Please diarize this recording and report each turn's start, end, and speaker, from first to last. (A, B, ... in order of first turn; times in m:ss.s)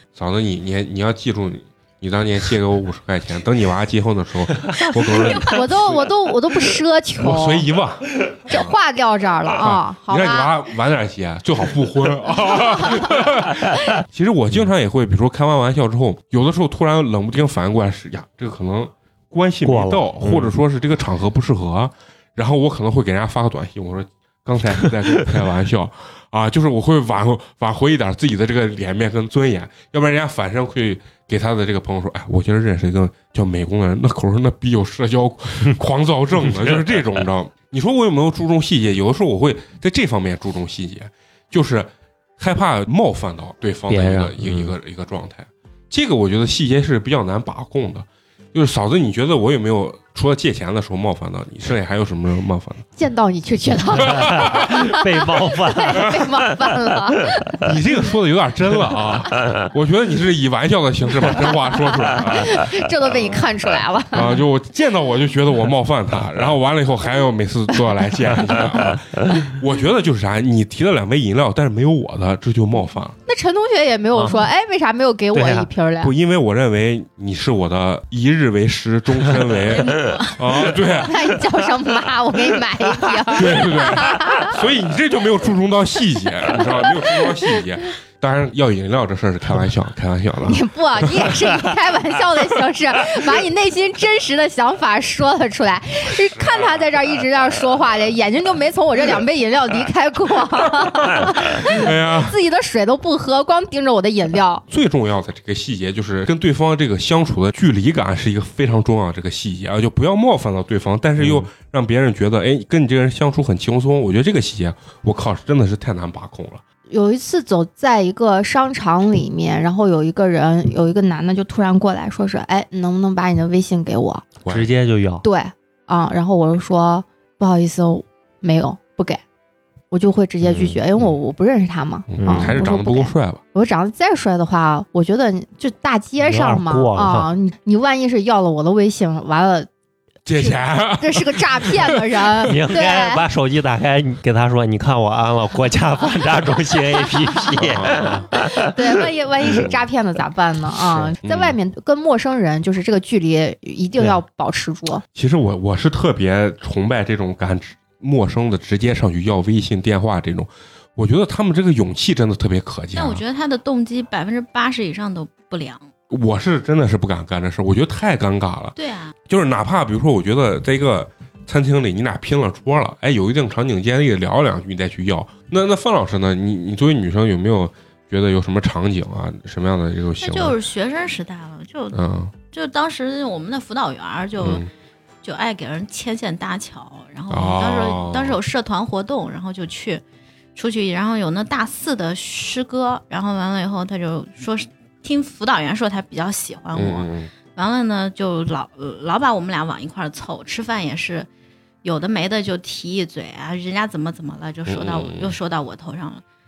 0:00.2-0:06.1 A
0:05.0-0:05.5 B
0:05.4-0:07.7 C
0:07.2-0:08.8 A
0:08.5-0:10.5 C
0:09.6-0:52.8 A
0:19.6-0:20.5 D
0:43.9-0:44.7 D
0:53.0-0:57.8 C
0:54.0-0:54.8 A
0:54.1-0:56.7 D
0:57.6-1:03.5 A
1:01.7-1:04.4 C
1:04.1-1:13.2 A
1:13.3-1:16.1 C
1:14.1-1:14.4 D
1:15.3-1:15.7 D
1:16.0-1:21.2 A
1:19.6-1:20.5 B
1:20.9-1:24.6 C
1:23.3-1:31.4 A
1:26.5-1:26.9 C
1:30.4-1:44.6 C
1:36.1-1:36.9 A
1:41.6-1:42.4 A
1:44.7-1:56.6 A
1:51.2-1:51.5 D
1:56.9-2:04.2 C
2:04.4-2:04.7 A
2:04.5-2:05.2 D
2:05.2-2:09.2 C
2:09.9-2:19.7 C
2:10.4-2:10.7 D
2:12.1-2:13.4 A
2:12.2-2:12.6 D
2:16.2-2:17.3 D
2:20.2-2:22.2 A
2:20.4-2:23.2 C
2:22.4-2:28.9 D
2:27.5-2:28.2 A
2:28.4-2:35.0 C
2:31.2-2:31.6 A
2:35.1-2:43.2 A
2:42.9-2:45.9 B
2:46.1-2:48.7 A
2:48.8-2:49.1 B
2:49.3-3:00.6 A
3:00.2-3:04.6 B
3:01.9-3:02.3 A
3:04.4-3:04.7 A
3:05.2-3:10.0 B
3:07.3-3:08.4 A
3:10.6-3:21.3 B
3:16.7-3:17.3 A
3:21.8-3:26.2 B
3:24.7-3:25.3 A